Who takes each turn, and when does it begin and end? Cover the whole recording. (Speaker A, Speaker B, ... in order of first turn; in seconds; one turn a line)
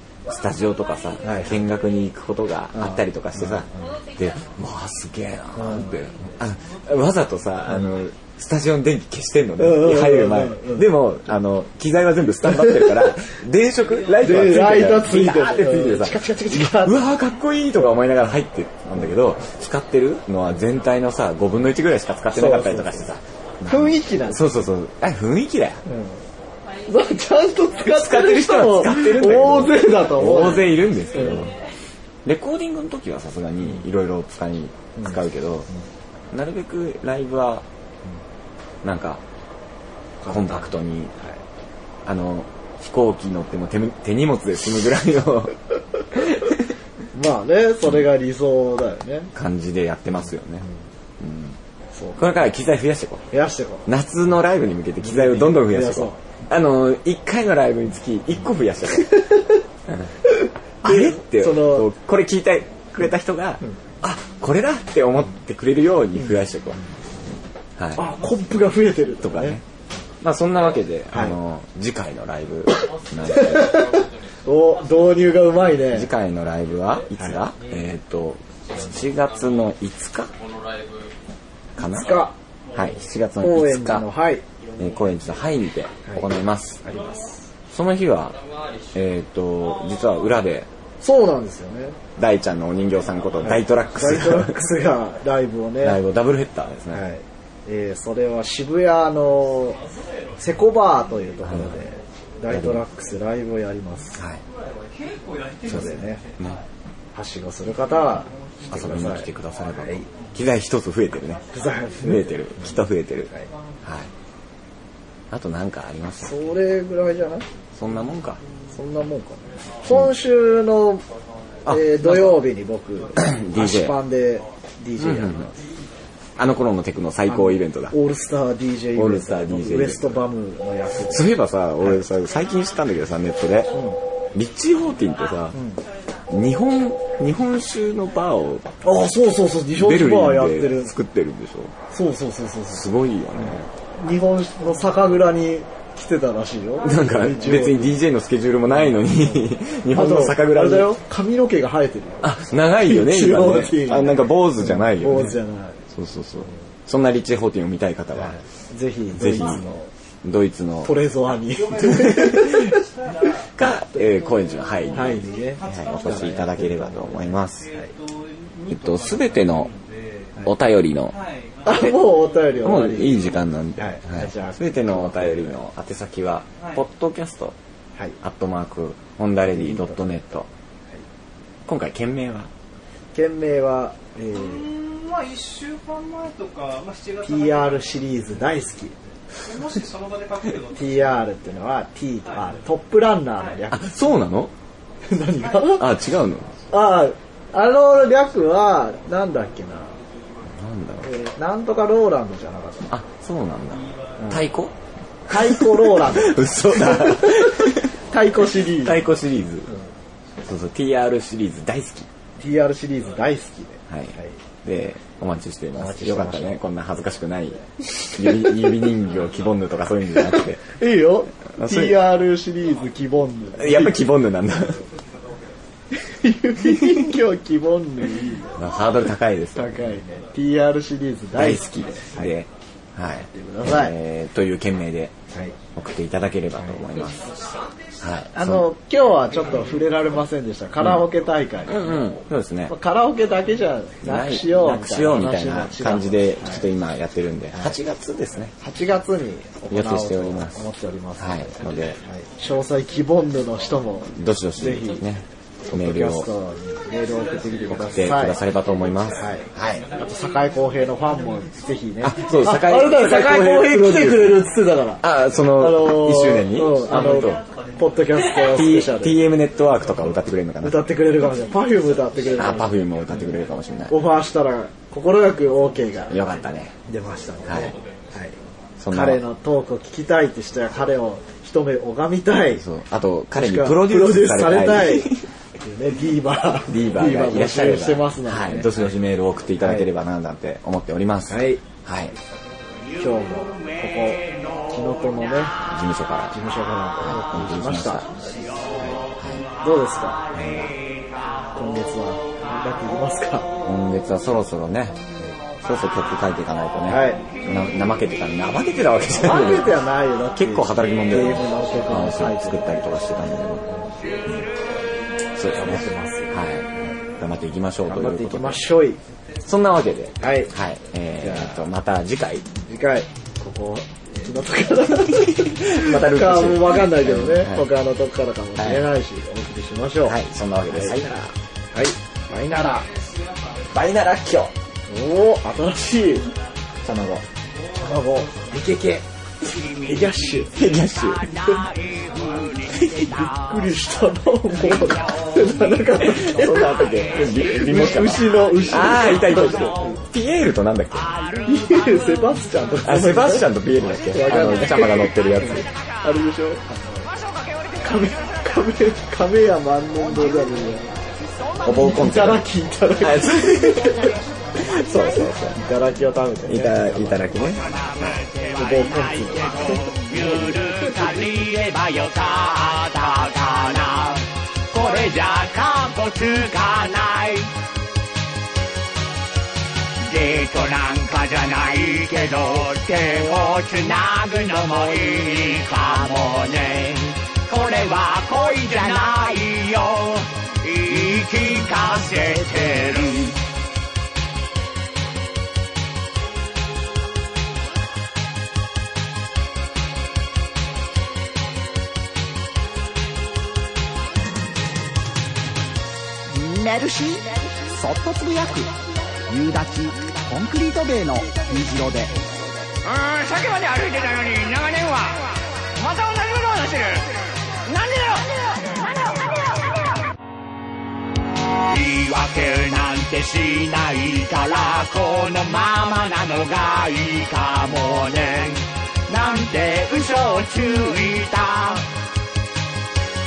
Speaker A: 0.3-25.9
Speaker B: 1.2-1.6
Speaker B: 2.8-4.0
Speaker B: 5.6-5.9
Speaker B: 9.6-10.9
Speaker B: 12.5-13.1
Speaker C: 14.1-15.0
Speaker B: 14.2-17.1
Speaker B: 22.3-23.1
Speaker B: 23.7-24.5
Speaker B: 25.9-26.2
Speaker B: 26.9-31.5
Speaker A: 27.8-31.5
Speaker A: 32.2-35.7
Speaker A: 36.3-37.7
Speaker A: 38.8-39.2
Speaker B: 40.2-40.7
Speaker A: 40.2-41.1
Speaker A: 42.0-45.5
Speaker A: 46.1-46.6
Speaker B: 47.1-49.3
Speaker A: 49.3-50.7
Speaker A: 51.2-51.6
Speaker B: 52.0-52.4
Speaker A: 52.2-53.2
Speaker B: 53.3-53.9
Speaker A: 53.9-59.3
Speaker B: 55.0-56.2
Speaker A: 59.9-60.1
Speaker B: 60.3-61.9
Speaker A: 60.8-66.8
Speaker A: 67.8-68.1
Speaker B: 68.0-69.6
Speaker A: 69.2-69.6
Speaker A: 70.2-73.9
Speaker B: 71.1-71.4
Speaker B: 73.3-76.1
Speaker A: 75.8-80.3
Speaker B: 77.2-77.4
Speaker A: 81.8-84.1
Speaker B: 81.8-82.3
Speaker B: 83.4-84.4
Speaker A: 84.8-86.8
Speaker B: 86.8-87.5
Speaker A: 87.7-88.4
Speaker A: 88.9-90.7
Speaker B: 91.0-92.0
Speaker A: 92.2-94.7
Speaker B: 93.4-96.0
Speaker A: 95.8-97.0
Speaker B: 96.9-99.8
Speaker C: 99.8-100.8
Speaker B: 100.4-104.2
Speaker A: 101.5-101.8
Speaker A: 102.5-102.8
Speaker A: 104.2-104.4
Speaker C: 104.7-106.6
Speaker B: 105.6-106.2
Speaker A: 105.7-106.6
Speaker B: 107.2-110.1
Speaker C: 107.8-108.7
Speaker A: 108.7-111.4
Speaker B: 111.5-113.5
Speaker A: 112.0-113.3
Speaker A: 113.8-114.1
Speaker A: 115.3-116.4
Speaker B: 116.2-117.5
Speaker A: 117.8-118.4
Speaker B: 118.7-121.0
Speaker A: 121.7-122.5
Speaker B: 121.7-125.5
Speaker A: 123.2-124.0
Speaker A: 125.0-125.5
Speaker A: 126.4-128.0
Speaker B: 127.3-131.3
Speaker A: 128.9-130.2
Speaker A: 131.0-133.8
Speaker B: 133.7-134.0
Speaker A: 134.3-135.6
Speaker B: 135.5-135.8
Speaker A: 136.3-138.7
Speaker B: 138.8-140.9
Speaker A: 139.7-141.7
Speaker B: 141.9-142.9
Speaker A: 142.7-143.7
Speaker B: 143.4-147.9
Speaker A: 146.8-151.0
Speaker B: 148.9-155.8
Speaker A: 152.2-155.4
Speaker A: 155.9-158.4
Speaker B: 158.2-159.9
Speaker A: 159.1-159.6
Speaker A: 160.2-161.0
Speaker B: 160.8-162.9
Speaker C: 161.4-170.4
Speaker A: 161.8-162.8
Speaker A: 163.5-167.7
Speaker B: 164.9-167.9
Speaker A: 168.7-169.7
Speaker A: 170.4-171.2
Speaker C: 171.1-173.4
Speaker B: 171.7-175.6
Speaker A: 172.6-177.6
Speaker A: 178.2-180.5
Speaker B: 179.5-180.0
Speaker A: 181.7-182.5
Speaker B: 183.1-184.7
Speaker C: 184.3-188.2
Speaker B: 187.2-189.0
Speaker C: 189.3-191.3
Speaker B: 190.7-194.1
Speaker A: 193.7-194.5
Speaker B: 195.1-195.9
Speaker A: 195.8-196.5
Speaker B: 196.7-200.0
Speaker A: 200.4-201.1
Speaker B: 201.0-202.9
Speaker A: 202.9-204.7
Speaker B: 204.2-204.4
Speaker B: 205.3-209.1
Speaker A: 205.3-209.7
Speaker A: 210.4-212.1
Speaker B: 212.4-214.4
Speaker A: 213.9-220.6
Speaker B: 215.8-216.6
Speaker B: 218.2-218.5
Speaker B: 220.3-224.0
Speaker A: 221.6-222.1
Speaker A: 223.6-224.9
Speaker B: 225.9-228.6
Speaker A: 226.6-227.1
Speaker A: 228.6-229.8
Speaker B: 229.6-232.3
Speaker A: 231.3-235.2
Speaker B: 233.2-233.9
Speaker A: 235.8-237.3
Speaker C: 237.0-237.7
Speaker A: 238.0-238.7
Speaker B: 238.3-242.0
Speaker C: 239.3-239.9
Speaker A: 240.8-241.1
Speaker A: 241.7-242.8
Speaker B: 242.7-246.7
Speaker A: 244.0-248.5
Speaker B: 248.6-255.1
Speaker A: 249.7-250.6
Speaker A: 251.2-252.0
Speaker A: 254.1-256.3
Speaker B: 255.7-258.4
Speaker A: 257.7-259.9
Speaker B: 259.1-269.2
Speaker A: 262.0-264.5
Speaker A: 265.0-267.4
Speaker A: 268.3-270.9
Speaker B: 270.6-273.3
Speaker A: 272.4-274.0
Speaker B: 273.9-276.2
Speaker A: 276.1-276.8
Speaker B: 276.9-278.4
Speaker A: 277.4-277.8
Speaker A: 278.8-279.2
Speaker B: 278.9-282.6
Speaker A: 282.5-285.3
Speaker B: 283.4-288.9
Speaker A: 286.7-292.2
Speaker B: 289.6-289.9
Speaker B: 291.3-291.6
Speaker B: 293.0-295.6
Speaker A: 295.6-296.4
Speaker B: 296.3-298.1
Speaker A: 297.0-298.1
Speaker C: 298.3-298.6
Speaker A: 299.2-299.4
Speaker B: 299.6-300.2
Speaker A: 300.3-300.8
Speaker B: 301.5-303.5
Speaker A: 303.6-305.0
Speaker A: 305.6-309.8
Speaker B: 306.9-307.2
Speaker B: 309.1-313.0
Speaker A: 310.3-313.7
Speaker A: 314.2-314.5
Speaker A: 315.4-318.7
Speaker B: 315.5-316.5
Speaker B: 317.9-319.0
Speaker A: 319.4-322.5
Speaker B: 320.2-320.5
Speaker B: 321.2-321.7
Speaker B: 322.7-330.2
Speaker A: 325.1-327.7
Speaker A: 328.6-328.9
Speaker A: 330.0-331.3
Speaker B: 330.7-331.1
Speaker B: 331.7-332.9
Speaker A: 333.7-334.5
Speaker B: 334.9-336.3
Speaker A: 336.8-337.3
Speaker B: 337.8-339.1
Speaker B: 339.8-340.6
Speaker A: 340.5-341.4
Speaker D: 341.3-343.6
Speaker A: 342.8-343.1
Speaker B: 343.0-346.9
Speaker A: 344.6-345.0
Speaker A: 346.0-351.1
Speaker B: 347.5-350.0
Speaker B: 351.4-353.5
Speaker A: 352.8-355.7
Speaker B: 354.1-357.1
Speaker D: 357.2-358.2
Speaker B: 357.8-360.9
Speaker A: 361.6-362.5
Speaker B: 361.7-364.1
Speaker A: 363.0-364.1
Speaker A: 364.6-365.6
Speaker B: 365.6-367.3
Speaker A: 366.5-367.6
Speaker D: 367.6-377.5
Speaker B: 368.5-371.2
Speaker D: 380.0-393.4
Speaker E: 406.3-408.7
Speaker E: 409.3-412.1
Speaker D: 412.9-417.1
Speaker D: 417.7-418.5
Speaker D: 421.7-431.9